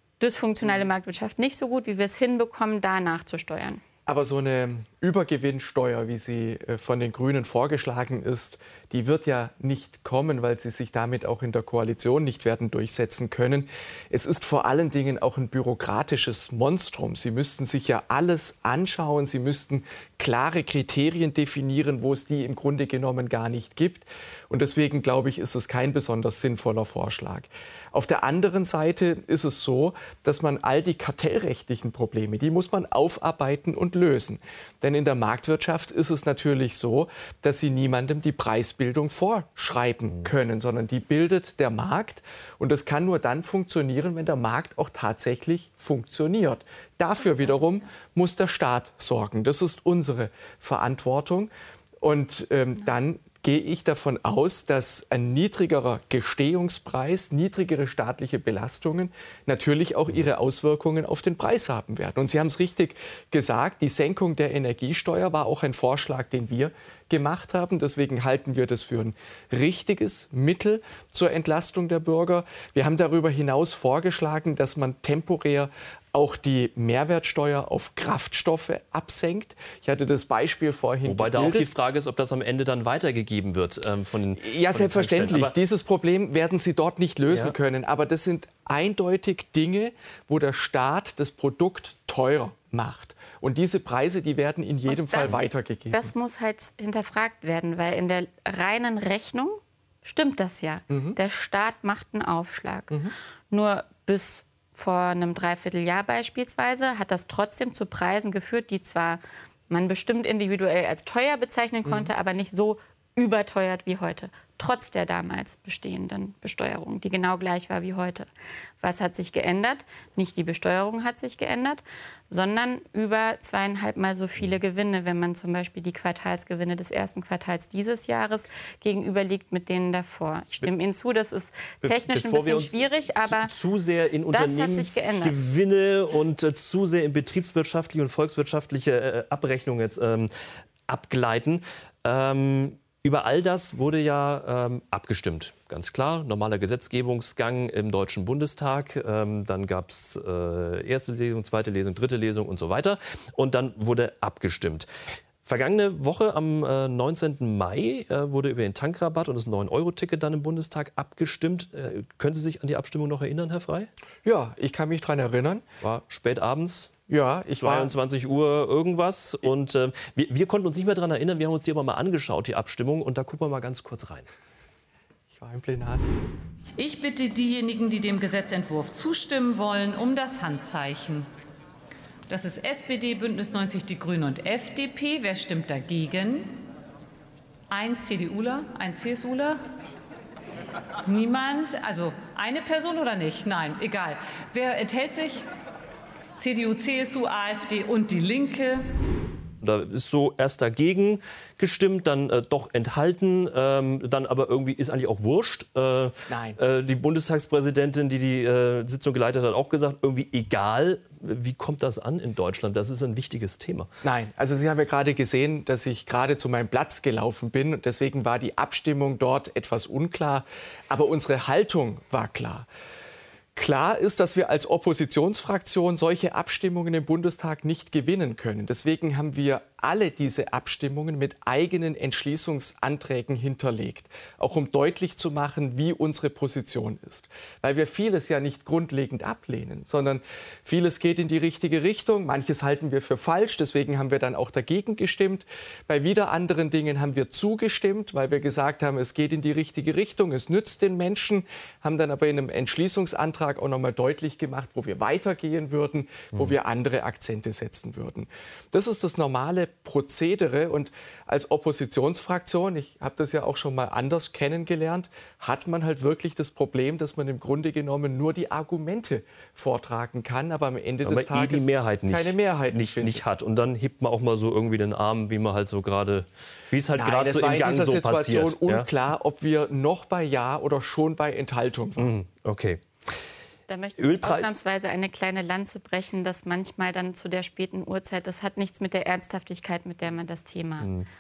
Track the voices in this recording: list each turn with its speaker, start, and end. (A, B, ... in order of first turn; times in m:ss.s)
0:00.2-0:03.8 A
0:04.1-1:21.7 B
1:21.0-1:25.5 C
1:24.4-1:36.1 B
1:27.3-1:27.6 C
1:34.9-1:35.4 A
1:35.9-1:43.0 A
1:40.9-1:41.2 B
1:43.5-1:58.3 A
1:51.8-1:52.1 B
1:58.8-2:13.5 A
2:11.8-2:20.3 C
2:14.3-2:15.4 A
2:20.9-2:34.9 C
2:35.4-2:43.9 C
2:44.2-2:45.6 B
2:45.8-2:46.9 C
2:47.1-2:47.9 B
2:47.6-2:54.3 C
2:55.3-2:56.2 B
2:56.8-3:01.3 D
3:02.3-3:06.7 D
3:07.7-3:09.6 D
3:11.0-3:15.5 D
3:16.4-3:18.9 D
3:19.6-3:33.9 C
3:26.3-3:26.6 B
3:34.0-3:42.7 B
3:43.6-4:33.2 B
4:31.0-4:38.9 C
4:37.0-4:42.1 B
4:42.0-4:43.2 C
4:43.7-4:50.9 A
4:44.0-4:44.5 C
4:50.8-4:51.1 C